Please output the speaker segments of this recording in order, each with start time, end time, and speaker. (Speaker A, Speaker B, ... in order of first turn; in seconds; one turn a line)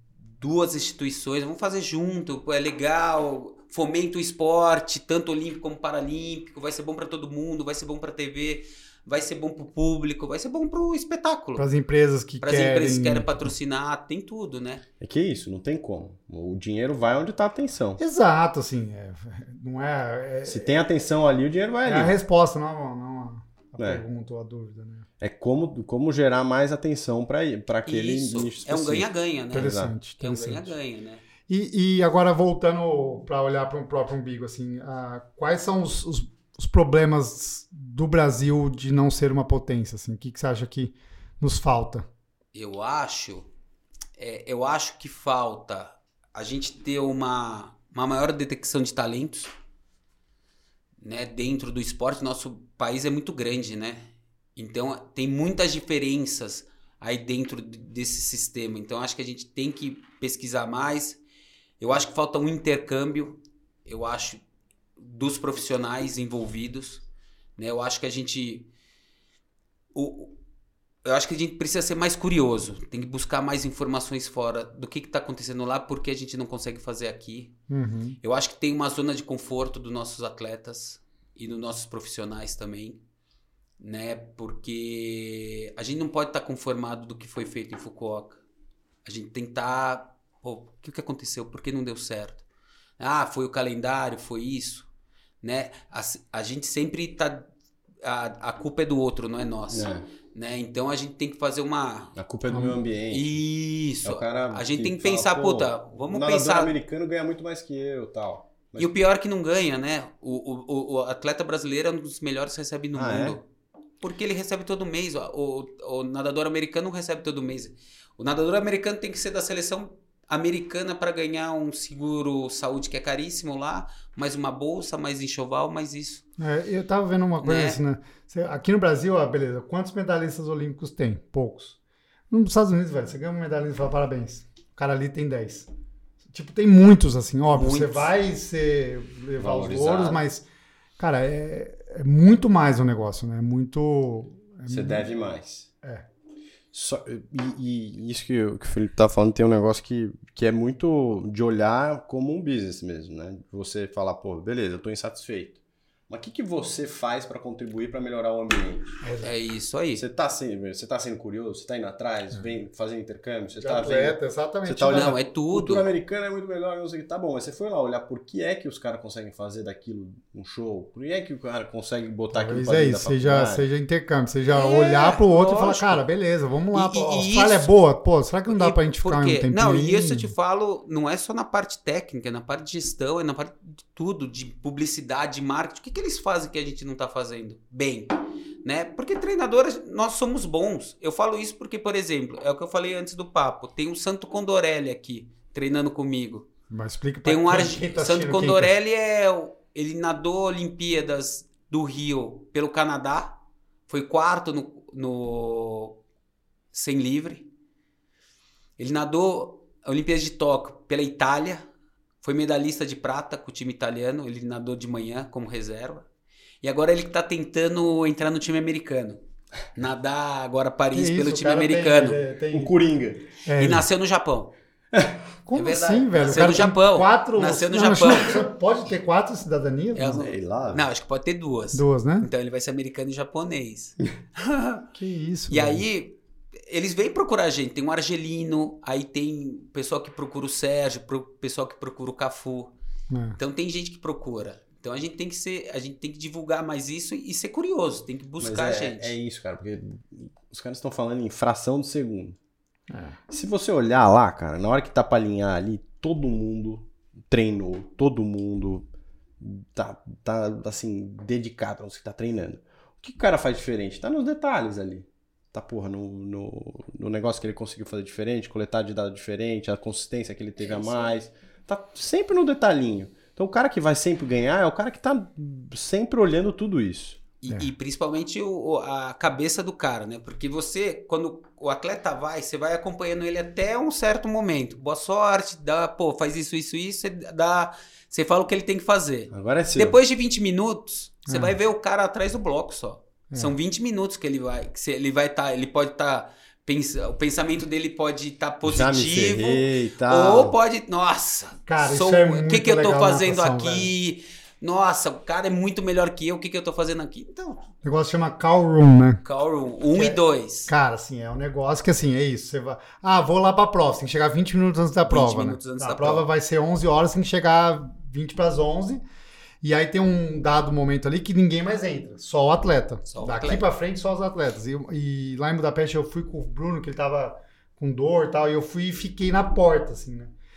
Speaker A: 0.4-11.6
Speaker B: 11.6-13.5
Speaker A: 12.4-14.8
Speaker C: 15.0-18.0
Speaker B: 18.0-20.8
Speaker C: 20.4-22.1
Speaker B: 21.8-25.1
Speaker C: 23.8-24.0
Speaker C: 25.2-29.9
Speaker A: 27.9-31.2
Speaker B: 29.5-30.7
Speaker B: 31.5-42.1
Speaker A: 42.5-43.5
Speaker A: 44.2-49.5
Speaker A: 51.0-61.2
Speaker A: 61.8-64.4
Speaker A: 65.0-67.0
Speaker A: 67.6-68.7
Speaker A: 69.9-70.4
Speaker A: 71.0-77.5
Speaker B: 77.7-78.2
Speaker A: 78.2-83.0
Speaker A: 83.8-88.4
Speaker A: 89.0-92.4
Speaker A: 93.0-94.9
Speaker A: 95.4-97.5
Speaker A: 98.0-102.2
Speaker C: 99.7-100.0
Speaker C: 102.2-103.4
Speaker B: 102.5-102.8
Speaker A: 103.1-106.7
Speaker C: 104.0-108.9
Speaker A: 108.8-113.4
Speaker C: 113.0-113.4
Speaker A: 114.0-126.2
Speaker B: 126.4-131.8
Speaker A: 127.4-127.8
Speaker B: 132.3-135.7
Speaker B: 136.3-140.4
Speaker A: 137.5-138.1
Speaker C: 139.4-140.2
Speaker B: 141.0-145.1
Speaker C: 144.7-145.7
Speaker C: 146.7-158.9
Speaker B: 159.0-159.3
Speaker A: 159.2-160.1
Speaker C: 159.9-173.7
Speaker B: 163.6-165.2
Speaker A: 164.9-165.9
Speaker B: 172.3-180.3
Speaker A: 174.5-176.0
Speaker A: 176.7-177.7
Speaker A: 178.5-196.5
Speaker B: 196.7-198.7
Speaker A: 197.2-203.4
Speaker A: 203.9-206.0
Speaker A: 206.7-207.5
Speaker A: 208.8-211.7
Speaker A: 212.2-216.1
Speaker A: 216.6-219.2
Speaker A: 219.7-222.2
Speaker B: 220.9-222.8
Speaker C: 222.5-223.3
Speaker B: 223.4-223.9
Speaker A: 223.6-224.5
Speaker B: 225.4-230.2
Speaker A: 225.5-228.5
Speaker A: 229.9-234.9
Speaker C: 230.2-230.9
Speaker B: 231.7-232.3
Speaker B: 234.9-235.8
Speaker A: 235.5-242.7
Speaker B: 243.1-243.4
Speaker A: 243.4-249.1
Speaker C: 248.4-252.4
Speaker B: 252.9-253.2
Speaker C: 253.3-258.9
Speaker C: 259.4-277.2
Speaker A: 270.6-271.1
Speaker A: 277.4-307.7
Speaker C: 289.3-290.0
Speaker B: 291.3-291.6
Speaker C: 298.6-300.6
Speaker B: 301.7-303.9
Speaker B: 307.8-309.2
Speaker A: 309.2-310.7
Speaker B: 309.9-319.0
Speaker A: 315.1-316.3
Speaker B: 319.6-330.3
Speaker A: 323.1-323.7